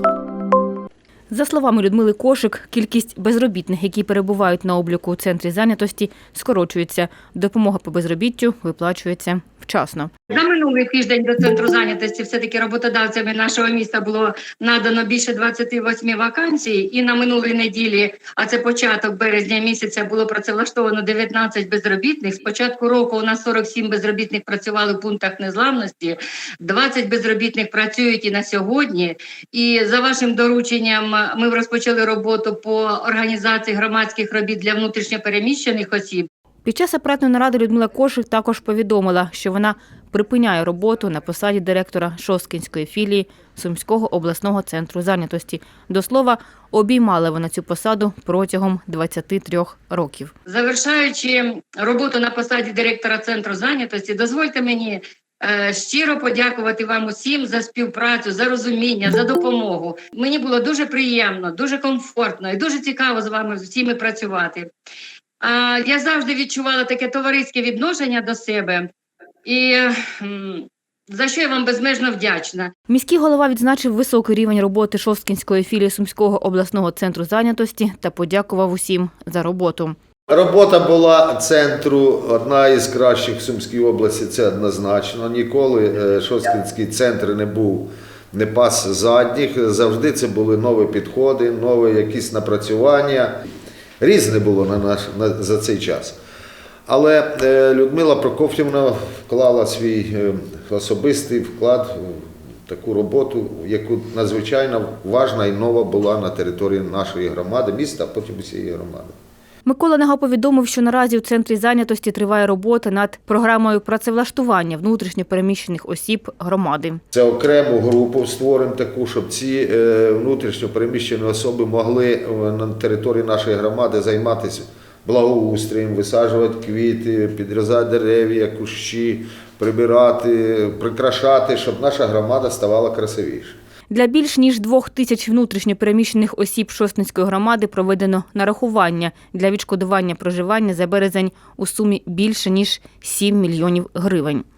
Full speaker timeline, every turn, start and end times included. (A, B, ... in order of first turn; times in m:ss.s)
0:01.3-0:10.1 A
0:10.3-0:36.3 B
0:36.6-0:50.3 A
0:50.4-1:04.7 B
1:05.4-1:08.9 B
1:09.4-1:12.7 B
1:12.9-1:20.0 A
1:20.3-1:33.3 C
1:34.0-1:36.2 C
1:36.9-1:49.1 C
1:49.6-1:57.0 A
1:57.1-2:13.6 C
2:13.9-2:24.4 A